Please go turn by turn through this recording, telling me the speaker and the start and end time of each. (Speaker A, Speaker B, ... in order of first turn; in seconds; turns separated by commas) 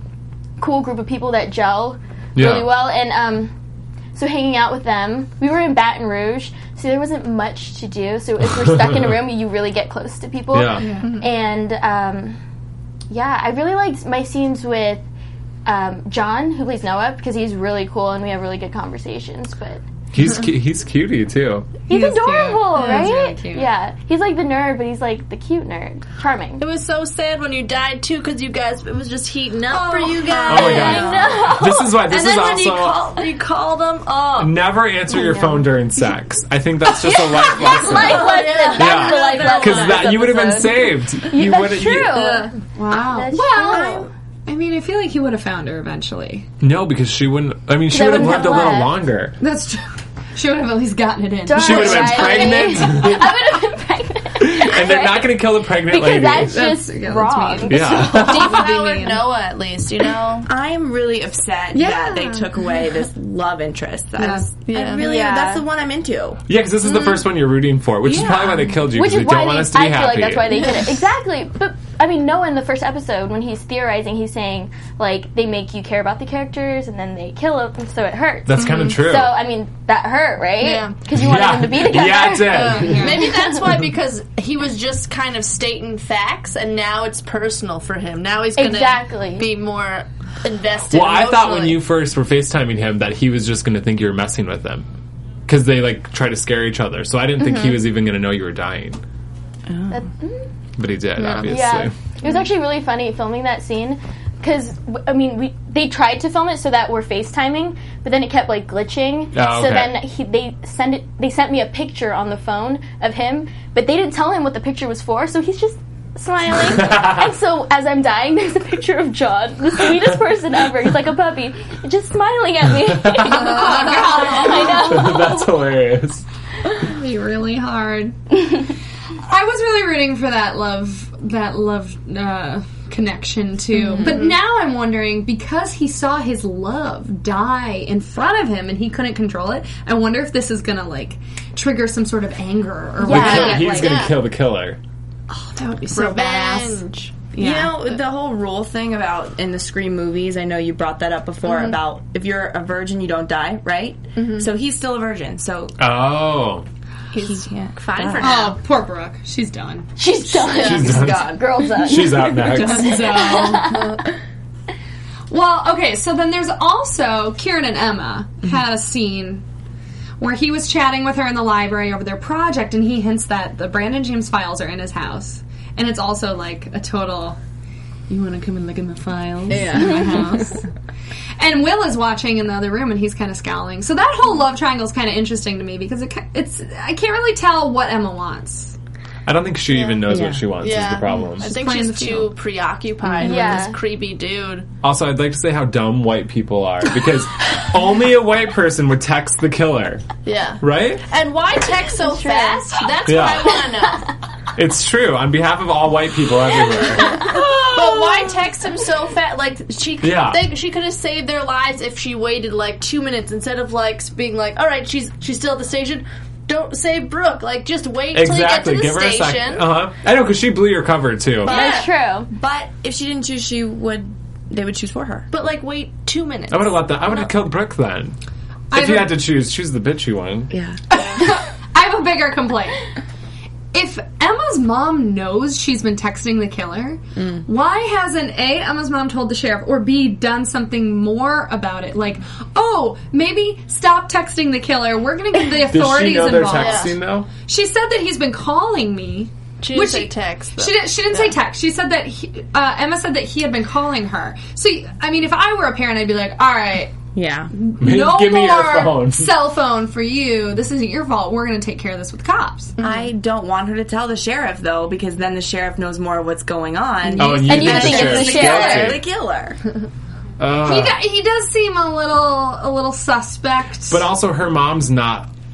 Speaker A: 0.6-3.5, Speaker B: 2.4-2.7, Speaker A: 4.1-12.4, Speaker B: 8.6-9.2, Speaker B: 10.5-10.9, Speaker C: 10.8-11.1, Speaker D: 11.0-11.3, Speaker A: 13.1-15.0, Speaker A: 15.7-19.8, Speaker B: 20.1-21.7, Speaker A: 21.9-26.6, Speaker C: 21.9-23.7, Speaker D: 22.8-23.1, Speaker D: 26.6-34.8, Speaker C: 29.7-30.9, Speaker E: 30.4-31.3, Speaker A: 30.5-32.0, Speaker B: 30.5-33.1, Speaker B: 34.4-42.3, Speaker A: 35.1-35.7, Speaker C: 37.0-37.8, Speaker D: 37.0-40.0, Speaker A: 37.6-42.5, Speaker D: 42.2-42.5, Speaker C: 42.6-46.5, Speaker A: 43.1-44.1, Speaker B: 46.6-49.4, Speaker A: 47.9-49.0, Speaker C: 49.4-52.6, Speaker A: 51.5-58.4, Speaker B: 51.5-53.4, Speaker B: 54.4-56.8, Speaker C: 56.5-59.3, Speaker B: 57.7-58.7, Speaker D: 58.1-60.5, Speaker E: 60.4-66.4, Speaker C: 61.7-62.5, Speaker C: 64.2-64.5, Speaker D: 64.7-65.0, Speaker A: 65.0-65.6, Speaker B: 66.5-70.7, Speaker E: 68.0-68.7, Speaker A: 68.9-83.6, Speaker B: 78.5-79.4, Speaker D: 78.6-79.0, Speaker D: 80.6-81.0, Speaker B: 81.1-83.3, Speaker D: 82.5-91.8, Speaker C: 82.6-83.2, Speaker A: 88.5-89.5, Speaker B: 90.9-94.9, Speaker B: 95.5-99.0, Speaker D: 97.4-97.8, Speaker E: 99.7-100.0, Speaker A: 99.9-100.5, Speaker B: 100.8-101.9, Speaker D: 101.2-101.7, Speaker A: 101.4-125.5, Speaker B: 109.3-110.0, Speaker B: 116.7-117.3, Speaker B: 123.0-123.6, Speaker C: 123.2-125.1, Speaker B: 124.3-126.2, Speaker C: 126.7-128.5, Speaker C: 129.2-144.1, Speaker B: 143.0-144.8, Speaker D: 143.1-144.2, Speaker C: 145.3-146.8, Speaker D: 145.9-148.0, Speaker E: 147.3-155.8, Speaker D: 151.4-151.8, Speaker D: 154.2-154.5, Speaker B: 155.8-156.6, Speaker D: 157.1-158.6, Speaker E: 157.1-158.5, Speaker C: 158.2-159.9, Speaker A: 160.0-163.9, Speaker D: 160.5-161.0, Speaker B: 160.5-163.2, Speaker C: 162.3-163.8, Speaker D: 163.6-164.1, Speaker C: 165.3-169.4, Speaker C: 170.2-177.4, Speaker E: 178.1-180.5, Speaker C: 179.5-180.7, Speaker C: 181.4-188.8, Speaker B: 189.2-191.5, Speaker D: 189.7-190.0, Speaker E: 190.1-190.4, Speaker D: 190.6-194.7, Speaker C: 191.4-192.3, Speaker E: 193.1-193.4, Speaker A: 193.2-193.8, Speaker B: 194.8-200.1, Speaker D: 200.2-204.1, Speaker B: 200.6-201.0, Speaker A: 201.9-202.9, Speaker B: 203.0-203.6, Speaker B: 204.6-207.3, Speaker D: 207.1-219.8, Speaker B: 210.0-210.5, Speaker B: 218.1-221.7, Speaker D: 221.4-221.9, Speaker A: 221.4-222.3, Speaker E: 222.3-225.3, Speaker D: 225.3-227.3, Speaker B: 226.5-228.1, Speaker C: 228.7-229.2, Speaker B: 228.7-230.5, Speaker E: 230.5-230.8, Speaker C: 230.9-232.8, Speaker D: 230.9-231.3, Speaker C: 233.7-246.9, Speaker E: 237.2-237.4, Speaker B: 245.7-247.3, Speaker D: 246.5-246.9, Speaker C: 247.4-256.9, Speaker D: 249.6-251.3, Speaker E: 257.1-257.5, Speaker C: 257.5-262.7, Speaker B: 257.8-259.3, Speaker D: 262.8-263.1, Speaker E: 262.8-269.6, Speaker B: 267.2-269.0, Speaker A: 267.4-269.0, Speaker B: 270.4-271.0, Speaker C: 270.5-274.0, Speaker B: 273.9-275.3